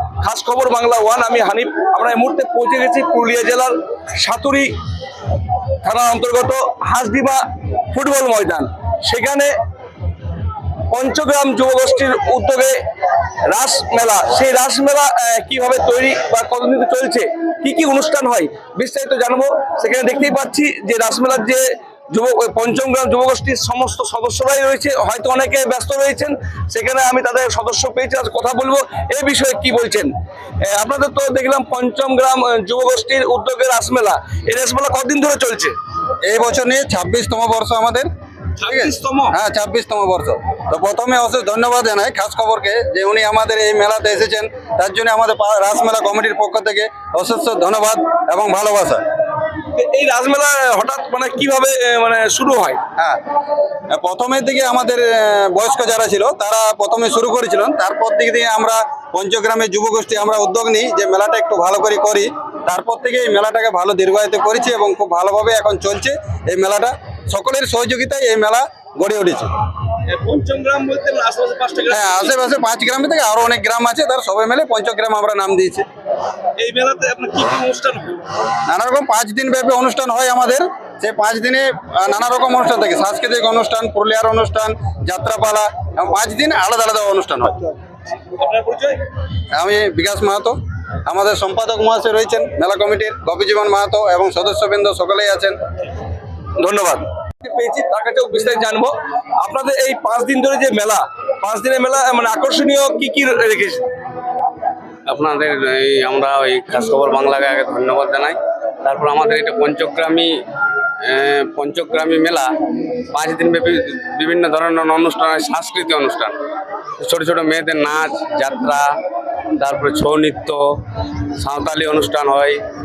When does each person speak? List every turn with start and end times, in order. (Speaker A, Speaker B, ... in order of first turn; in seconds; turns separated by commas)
Speaker A: 0.2-4.7, Speaker A: 5.8-7.4, Speaker A: 7.9-9.5, Speaker A: 10.9-12.7, Speaker A: 13.5-30.1, Speaker A: 30.6-35.7, Speaker B: 36.2-38.1, Speaker A: 38.6-39.3, Speaker B: 38.7-49.0, Speaker A: 49.8-52.8, Speaker B: 53.9-69.5, Speaker A: 70.1-72.3, Speaker B: 71.9-75.8, Speaker A: 76.6-78.2, Speaker B: 78.7-87.6, Speaker A: 88.2-89.0, Speaker B: 89.5-95.6, Speaker A: 96.6-103.8, Speaker C: 105.1-110.4, Speaker C: 111.0-112.5, Speaker C: 113.1-116.3, Speaker C: 117.0-118.9, Speaker C: 119.6-120.6, Speaker C: 121.4-122.6